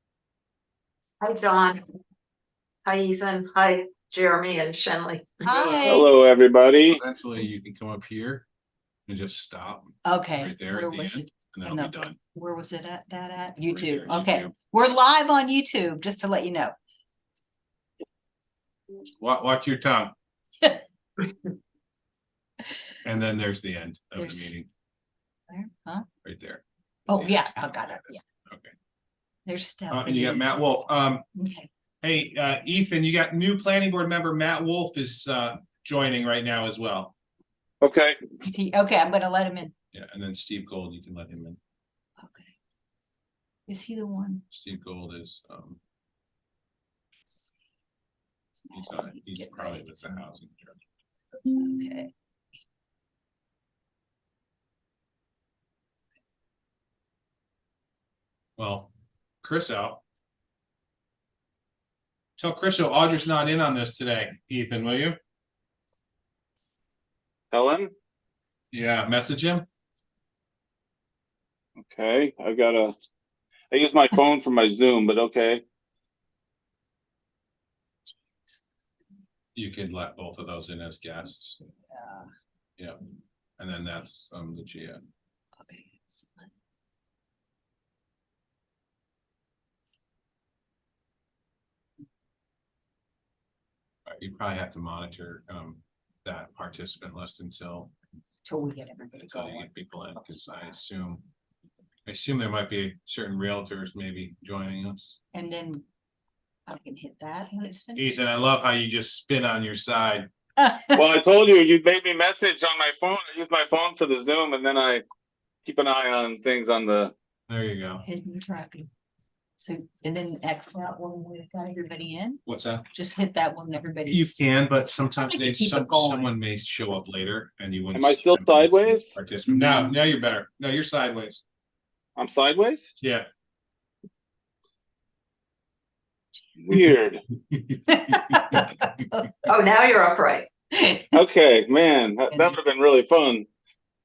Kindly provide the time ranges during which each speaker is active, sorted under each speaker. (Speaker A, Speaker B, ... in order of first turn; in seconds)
Speaker A: 1.2-1.8, 2.8-5.3, 139.5-140.5
Speaker B: 5.4-6.1, 10.0-16.7, 24.1-24.5, 25.5-26.0, 27.1-28.2, 29.4-30.5, 31.3-31.7, 38.4-39.7, 42.2-42.5, 43.7-44.4, 47.2-47.5, 48.5-50.2, 51.5-52.1, 81.9-82.3, 85.6-86.5, 98.4-99.7, 105.3-105.8, 106.7-108.2, 110.6-111.0, 118.0-118.9, 119.6-124.4, 125.2-126.3, 137.9-139.5, 140.7-141.2
Speaker C: 5.7-7.0, 37.8-38.2, 67.5-67.9, 71.8-72.9, 73.7-75.6, 110.9-115.0, 115.7-117.1, 127.9-129.2, 132.2-132.9, 136.6-137.2, 141.1-143.5
Speaker D: 6.9-8.4, 9.1-12.2, 13.7-14.5, 19.2-20.1, 23.0-24.7, 26.2-28.7, 29.9-31.2, 32.0-37.1, 39.9-41.6, 44.5-45.8, 48.7-50.8, 58.6-60.0, 62.4-65.2, 68.7-69.7, 79.5-81.6, 83.6-85.0, 94.1-97.9, 99.2-101.2, 102.0-105.2, 108.0-110.3, 117.5-118.0, 122.4-122.8, 124.1-131.4, 133.0-133.2, 137.5-138.6